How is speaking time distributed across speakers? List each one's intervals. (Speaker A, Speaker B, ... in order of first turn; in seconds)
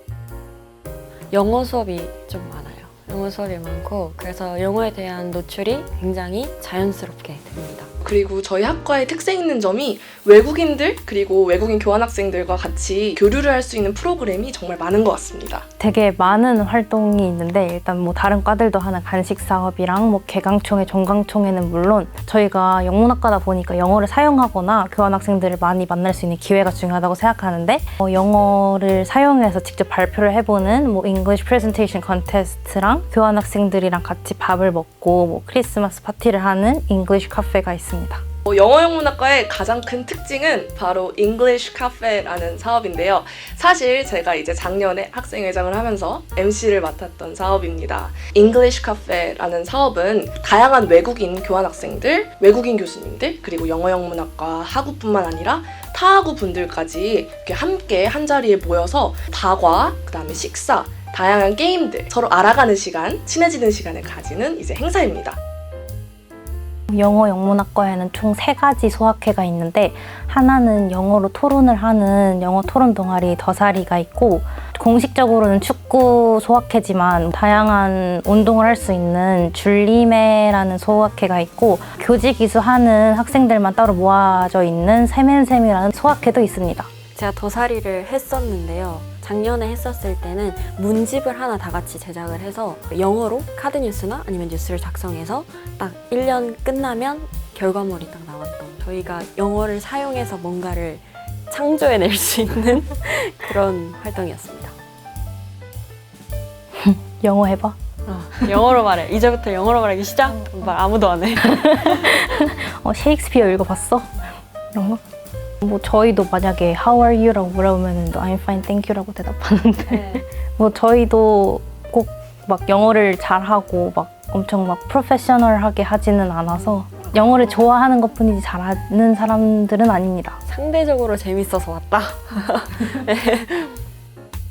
Speaker A: 1.3-7.9, 87.2-104.8, 108.1-112.3, 119.9-120.2, 126.5-127.7, 130.5-133.8
Speaker B: 8.0-15.7, 38.5-65.4
Speaker C: 15.8-38.2, 66.9-86.9, 106.8-107.8, 111.8-115.0, 115.6-130.4